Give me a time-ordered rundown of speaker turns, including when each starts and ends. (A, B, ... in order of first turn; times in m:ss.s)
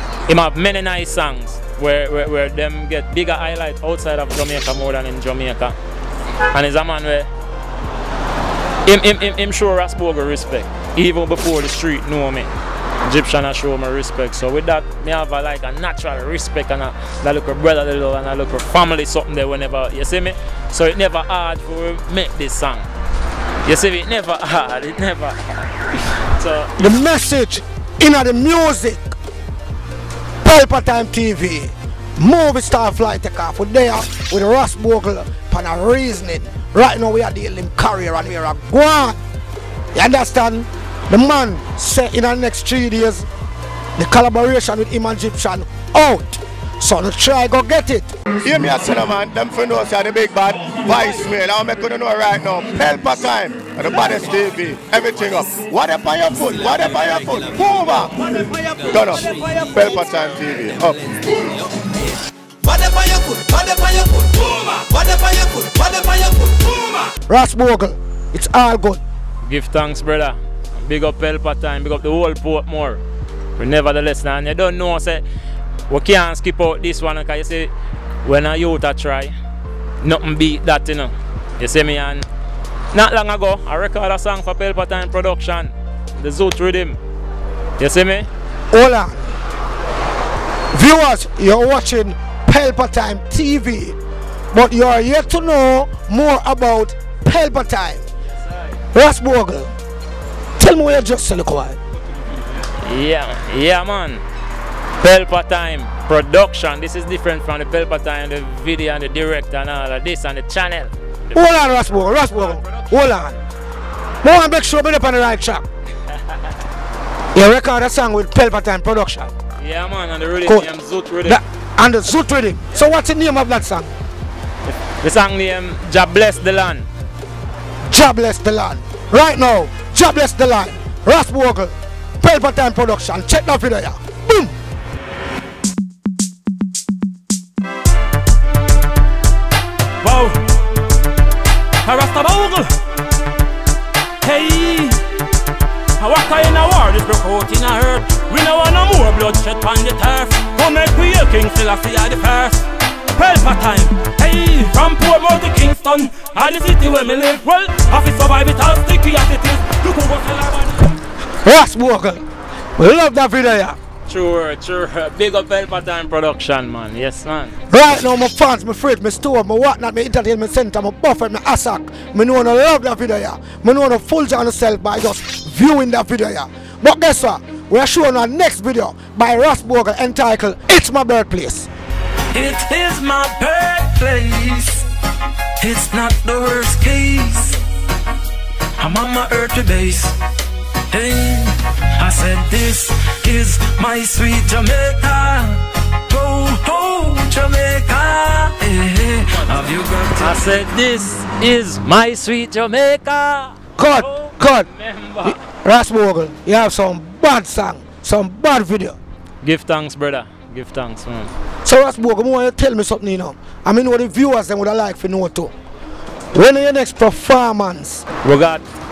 0:00.3-0:05.8 A
0:06.5-0:07.3 A
0:08.8-0:12.5 A
0:13.1-0:22.9 A
0:23.6-0:25.4 A
0:26.4-0:26.7 A
0:26.8-0:29.2 B
0:30.4-0:39.2 B
0:39.9-0:43.3 B
0:44.0-0:48.1 B
0:48.4-0:58.2 C
0:58.4-0:59.7 D
0:58.9-1:01.1 C
1:02.6-1:07.1 D
1:07.3-1:09.0 B
1:09.4-1:13.0 A
1:13.6-1:15.2 A
1:15.9-1:17.7 A
1:18.2-1:19.3 A
1:20.0-1:22.2 A
1:22.9-1:27.0 A
1:27.8-1:28.3 A
1:28.7-1:29.3 B
1:30.7-1:34.0 B
1:34.5-1:38.1 B
1:38.9-1:39.7 B
1:40.6-1:41.8 B
1:42.8-1:44.2 A
1:45.0-1:51.6 A
1:51.3-1:53.4 B
1:52.4-1:52.8 A
1:54.2-1:55.6 B
1:57.3-1:59.3 B
1:59.6-2:01.4 A
2:01.2-2:03.9 B
2:04.6-2:06.9 A
2:07.9-2:14.5 B
2:20.0-2:20.4 E
2:21.8-2:22.6 E
2:24.3-2:24.8 E
2:26.0-2:30.2 A
2:27.6-2:32.6 E
2:33.2-2:40.7 E
2:41.4-2:42.2 B
2:42.8-2:43.8 B
2:44.1-2:47.5 A
2:47.7-3:01.7 B
3:02.3-3:04.8 E
3:05.6-3:07.6 E
3:08.8-3:10.2 E
3:10.9-3:20.5 E
3:20.2-3:25.4 A
3:23.8-3:24.7 B
3:25.2-3:29.0 B
3:29.4-3:31.3 A
3:31.6-3:35.5 B
3:36.3-3:38.0 B
3:38.2-3:38.6 A